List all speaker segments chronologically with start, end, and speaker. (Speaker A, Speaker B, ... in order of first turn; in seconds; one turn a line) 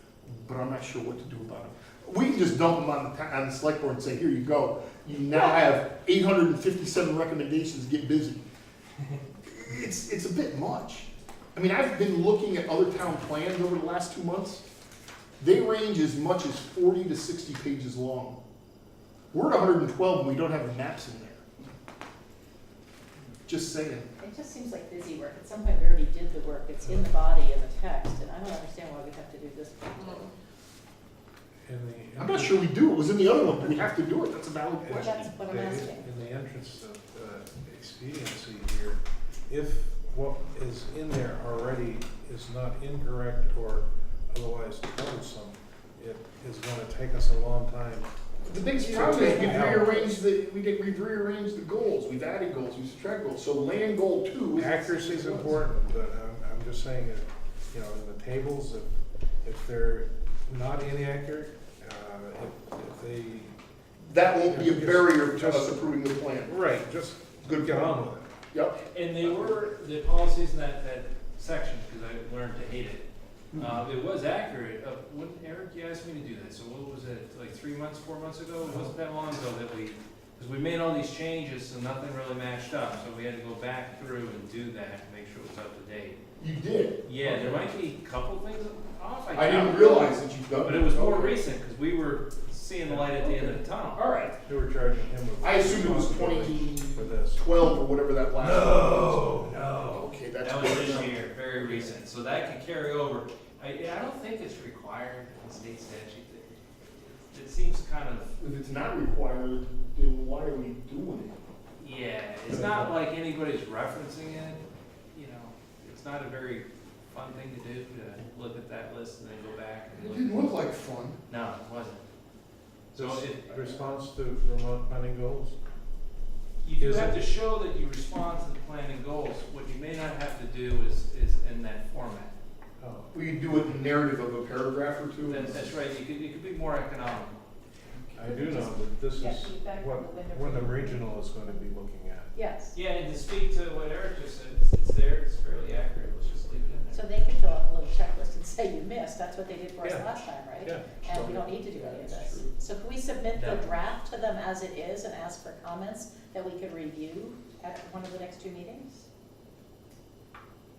Speaker A: 0.3-8.4
Speaker A: 9.5-14.6
Speaker A: 15.4-18.4
Speaker A: 19.3-21.4
Speaker A: 23.5-24.1
Speaker B: 24.2-30.3
Speaker C: 31.7-32.7
Speaker A: 32.2-35.3
Speaker C: 33.4-33.8
Speaker C: 34.8-48.1
Speaker B: 35.0-36.0
Speaker A: 48.5-55.6
Speaker C: 48.7-50.2
Speaker C: 54.5-63.5
Speaker A: 64.1-66.5
Speaker C: 64.4-65.8
Speaker C: 66.4-68.3
Speaker A: 67.4-69.6
Speaker D: 68.9-86.2
Speaker A: 86.4-87.0
Speaker D: 87.0-94.0
Speaker C: 87.2-87.6
Speaker A: 89.3-91.4
Speaker A: 93.2-94.4
Speaker C: 94.5-97.5
Speaker A: 95.4-99.3
Speaker D: 98.4-108.3
Speaker C: 98.8-99.9
Speaker A: 99.9-101.2
Speaker A: 108.4-111.4
Speaker D: 111.8-120.6
Speaker C: 112.5-113.0
Speaker A: 119.9-121.2
Speaker D: 121.3-122.0
Speaker C: 122.9-125.6
Speaker D: 122.9-123.8
Speaker D: 126.6-132.3
Speaker C: 126.8-127.2
Speaker C: 132.8-133.1
Speaker A: 133.1-135.8
Speaker D: 135.2-137.4
Speaker C: 138.2-142.3
Speaker B: 138.2-141.1
Speaker B: 142.3-142.8
Speaker D: 142.7-147.2
Speaker B: 146.9-159.1
Speaker C: 149.8-150.9
Speaker A: 151.0-152.5
Speaker D: 153.3-153.7